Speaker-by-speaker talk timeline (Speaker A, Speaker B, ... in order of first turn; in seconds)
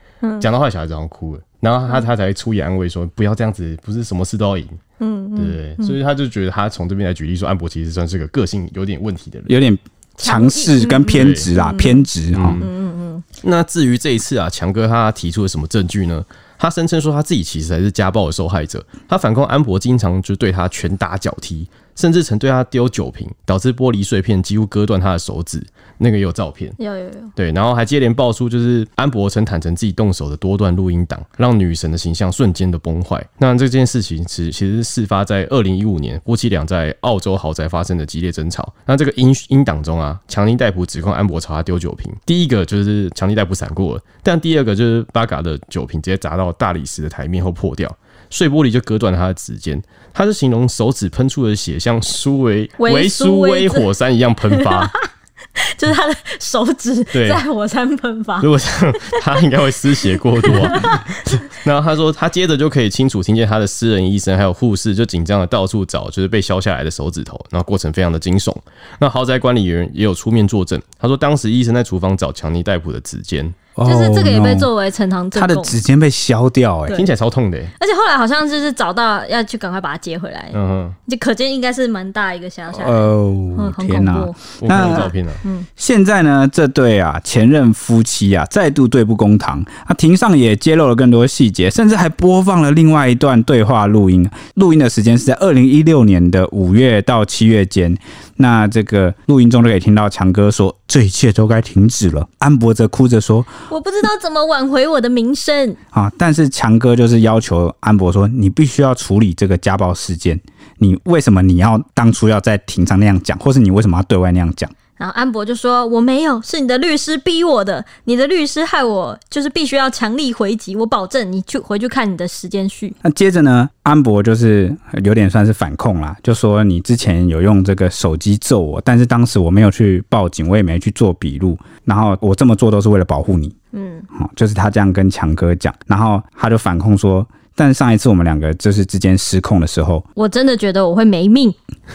Speaker A: 0.4-4.8, 5.4-9.6, 11.1-11.5, 12.3-12.7, 13.4-26.8, 27.4-54.9, 57.1-57.4, 58.4-73.6, 76.9-77.7, 80.5-81.0, 84.6-85.4
Speaker B: 5.0-6.0, 10.2-12.1, 12.6-13.2, 26.8-27.3, 52.8-53.9, 54.5-55.1, 55.6-59.2, 60.5-61.4, 73.8-75.8, 77.8-85.7, 103.7-105.8, 115.0-123.0, 133.7-134.1, 140.2-141.6
Speaker C: 9.5-12.6, 73.8-74.7, 75.3-77.0, 82.7-85.1, 85.8-103.5, 105.9-114.7, 123.0-133.6, 134.1-140.1